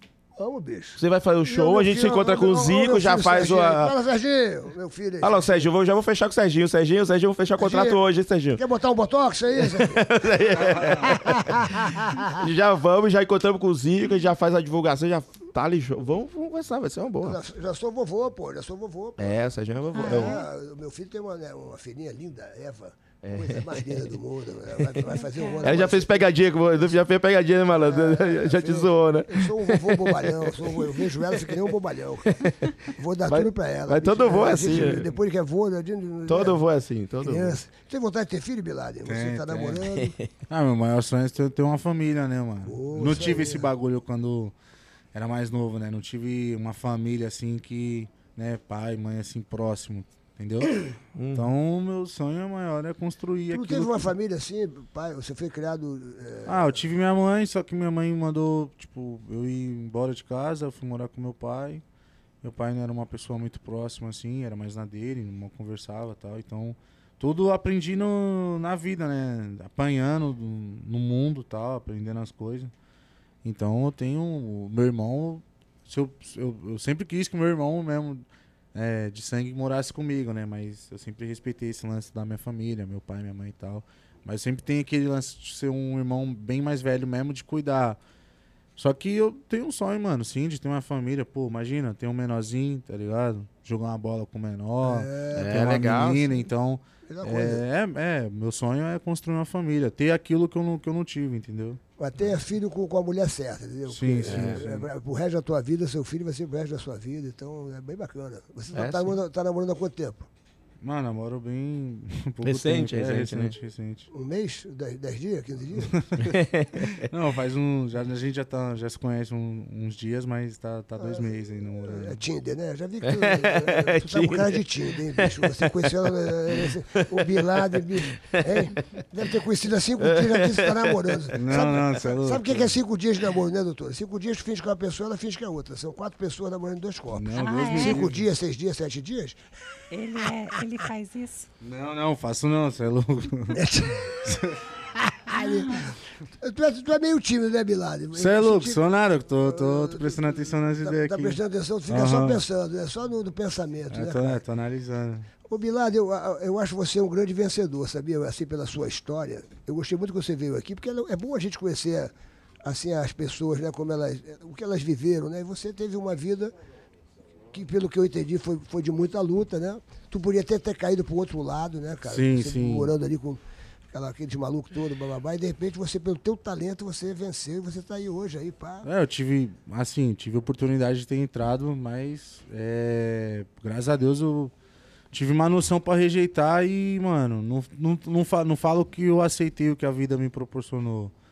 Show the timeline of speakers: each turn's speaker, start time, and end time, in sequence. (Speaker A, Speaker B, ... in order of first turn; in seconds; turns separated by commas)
Speaker A: 0.4-5.5, Speaker B: 1.0-3.9, Speaker B: 5.2-8.6, Speaker A: 7.6-8.0, Speaker A: 8.6-10.0, Speaker B: 9.6-17.4, Speaker C: 10.6-11.2, Speaker A: 10.9-12.4, Speaker A: 17.2-26.9, Speaker B: 19.2-20.4, Speaker D: 19.9-20.5, Speaker B: 23.2-24.1, Speaker D: 25.1-25.9, Speaker B: 25.6-31.6, Speaker A: 27.7-36.6, Speaker B: 32.3-35.1, Speaker B: 36.3-37.6, Speaker A: 37.2-40.1, Speaker C: 39.0-39.8, Speaker B: 39.8-40.3, Speaker C: 40.5-44.5, Speaker A: 42.6-43.7, Speaker C: 45.1-50.8, Speaker B: 51.1-51.5, Speaker C: 51.3-54.1, Speaker A: 53.5-56.7, Speaker C: 56.5-61.8, Speaker C: 62.4-72.7, Speaker C: 73.4-88.0, Speaker C: 88.8-101.8, Speaker A: 94.8-95.6, Speaker B: 95.3-96.4, Speaker A: 97.0-97.6, Speaker A: 102.0-110.3, Speaker C: 103.9-104.9, Speaker B: 104.2-104.6, Speaker B: 108.7-109.1, Speaker C: 110.8-114.1, Speaker B: 112.4-113.5, Speaker A: 114.1-116.0, Speaker C: 115.9-116.4, Speaker B: 116.2-117.1, Speaker C: 117.0-122.2, Speaker A: 121.0-121.3, Speaker A: 121.8-139.4, Speaker B: 123.0-128.8, Speaker B: 130.0-131.3, Speaker C: 131.3-132.8, Speaker C: 137.1-138.2, Speaker D: 137.3-138.0, Speaker D: 139.9-141.5, Speaker C: 141.6-143.7, Speaker A: 143.5-144.2, Speaker C: 144.2-144.6, Speaker A: 144.9-148.8, Speaker D: 145.3-145.8, Speaker C: 148.1-152.4, Speaker A: 149.4-154.4, Speaker C: 153.9-155.3, Speaker A: 155.4-162.1, Speaker A: 162.6-166.5, Speaker A: 167.5-173.4, Speaker C: 172.1-172.9, Speaker A: 173.9-178.9, Speaker C: 178.8-184.5, Speaker C: 185.1-191.1